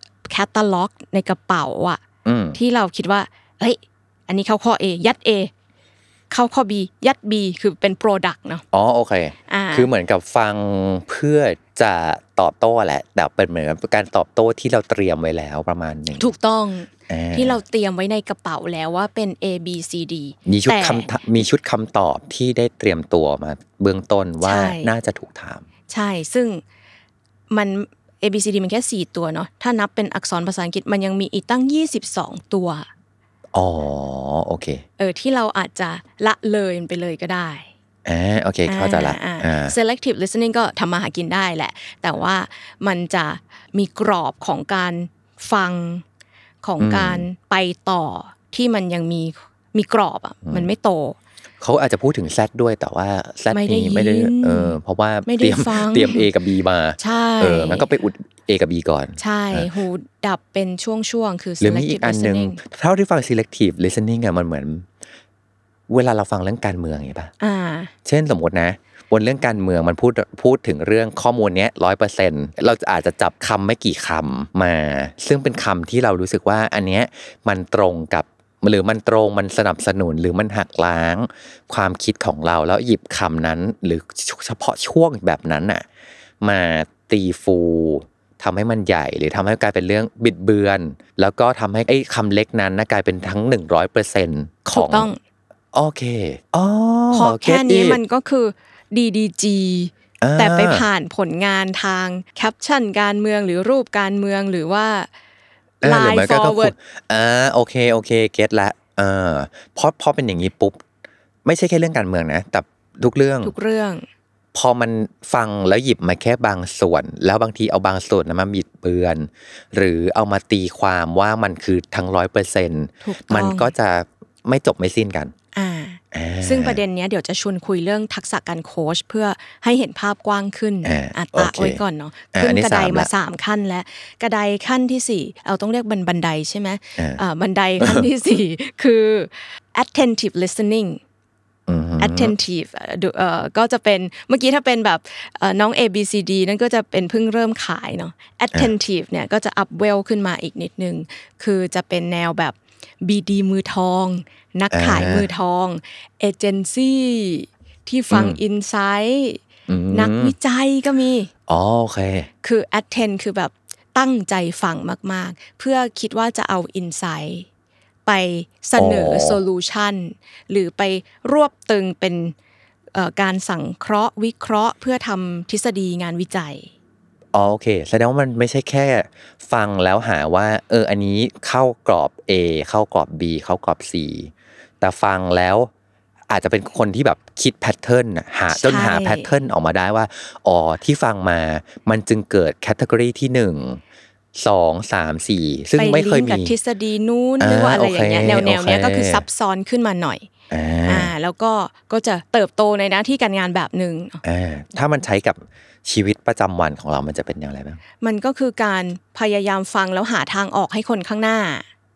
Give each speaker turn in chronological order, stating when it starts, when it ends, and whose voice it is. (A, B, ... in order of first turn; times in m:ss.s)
0:00.3-0:02.0 A
0:02.2-0:02.6 B
0:02.5-0:05.5 A
0:06.3-0:08.6 A
0:08.7-0:16.3 B
0:09.5-0:09.9 A
0:16.2-0:21.1 A
0:17.1-0:17.6 B
0:20.5-0:25.6 B
0:24.4-0:24.9 A
0:25.9-0:26.6 A
0:27.5-0:32.9 A
0:33.5-0:34.8 B
0:35.0-0:37.7 A
0:38.0-0:39.8 B
0:38.7-0:46.0 A
0:46.6-0:51.2 A
0:46.8-0:47.2 B
0:51.6-0:59.7 B
0:53.5-0:56.2 A
0:57.0-0:57.9 A
0:59.2-1:02.6 A
1:01.6-1:04.9 B
1:05.9-1:07.3 B
1:07.4-1:07.9 A
1:08.0-1:25.8 B
1:26.4-1:35.1 B
1:34.7-1:35.2 A
1:35.7-1:38.0 B
1:37.1-1:45.1 A
1:40.2-1:40.8 B
1:45.8-1:50.8 B
1:45.8-1:46.7 A
1:51.4-1:53.5 B
1:53.4-1:54.1 A
1:54.5-2:05.3 B
2:03.0-2:03.7 A
2:05.5-2:21.0 A
2:06.1-2:06.8 B
2:10.8-2:11.8 B
2:12.3-2:13.1 B
2:17.8-2:18.1 B
2:21.7-2:22.4 B
2:22.0-2:41.3 A
2:34.7-2:35.3 B
2:38.1-2:38.4 B
2:39.7-2:40.4 B
2:41.5-2:42.3 B
2:42.4-2:47.5 A
2:48.1-2:52.4 A
2:48.8-2:49.4 B
2:52.9-2:56.7 A
2:57.3-3:05.7 B
3:06.3-3:13.8 B
3:08.5-3:09.3 A
3:14.4-3:16.5 B
3:15.8-3:20.3 A
3:17.4-3:19.2 B
3:20.5-3:21.1 B
3:20.9-3:24.2 A
3:24.2-3:27.8 B
3:28.0-3:31.7 A